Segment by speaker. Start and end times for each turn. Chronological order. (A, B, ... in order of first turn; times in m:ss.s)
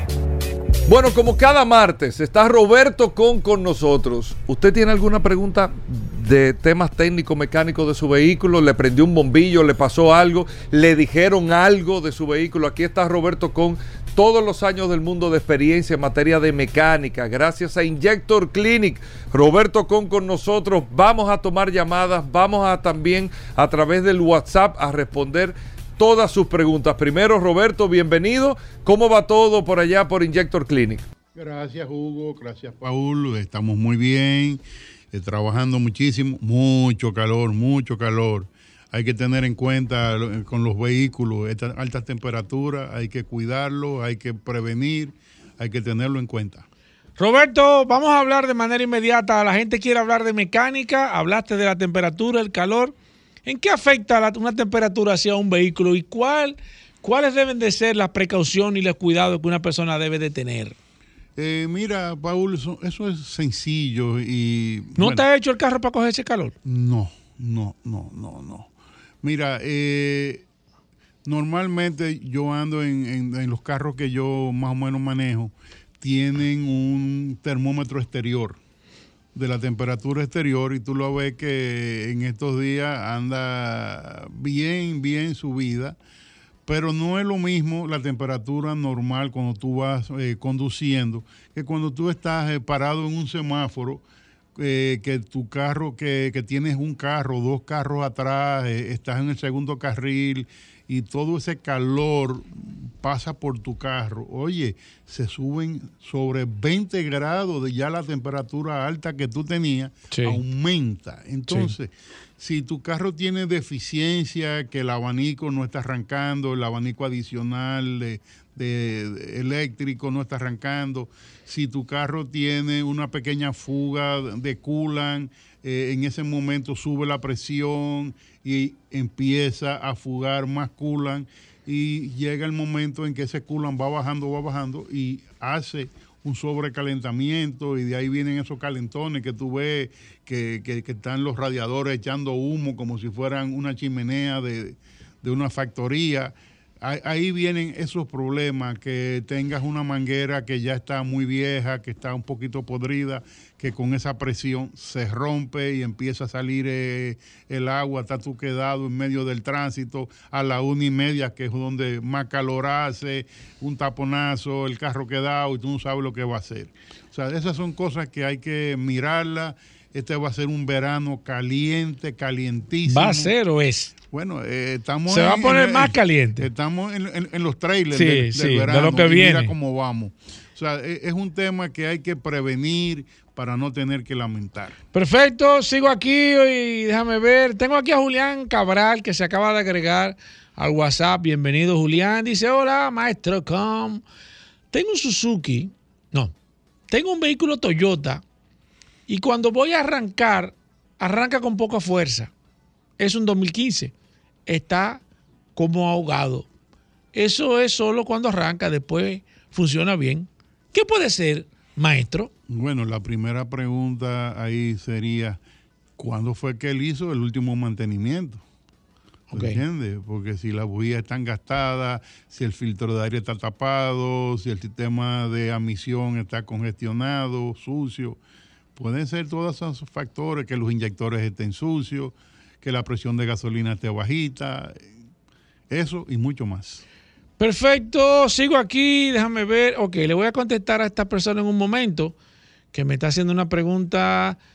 0:00.9-0:31.1 A
0:31.3-0:46.7 B
0:47.2-0:52.9 C
0:53.5-1:00.8 C
1:01.4-1:05.2 B
1:05.0-1:06.5 C
1:06.6-1:08.7 B
1:09.2-1:10.4 B
1:11.2-1:18.6 B
1:19.4-1:26.0 B
1:26.7-1:34.0 B
1:34.6-2:53.3 B
1:50.1-1:50.4 C
1:51.5-1:51.7 C
2:52.9-2:53.9 C
2:54.1-3:04.8 B
2:55.1-2:56.5 C
2:57.9-2:59.6 C
3:04.9-3:14.0 C
3:14.7-3:16.3 C
3:16.9-3:18.2 C
3:19.1-3:22.3 C
3:23.0-3:23.9 C
3:24.5-3:25.0 C
3:25.6-3:26.5 C
3:27.1-3:32.3 C
3:32.5-3:35.4 B
3:36.0-3:38.4 B
3:39.3-3:39.6 C
3:39.3-3:48.2 B
3:48.8-3:54.9 B
3:55.7-3:56.8 B
3:57.4-4:02.2 C
4:02.7-4:04.4 C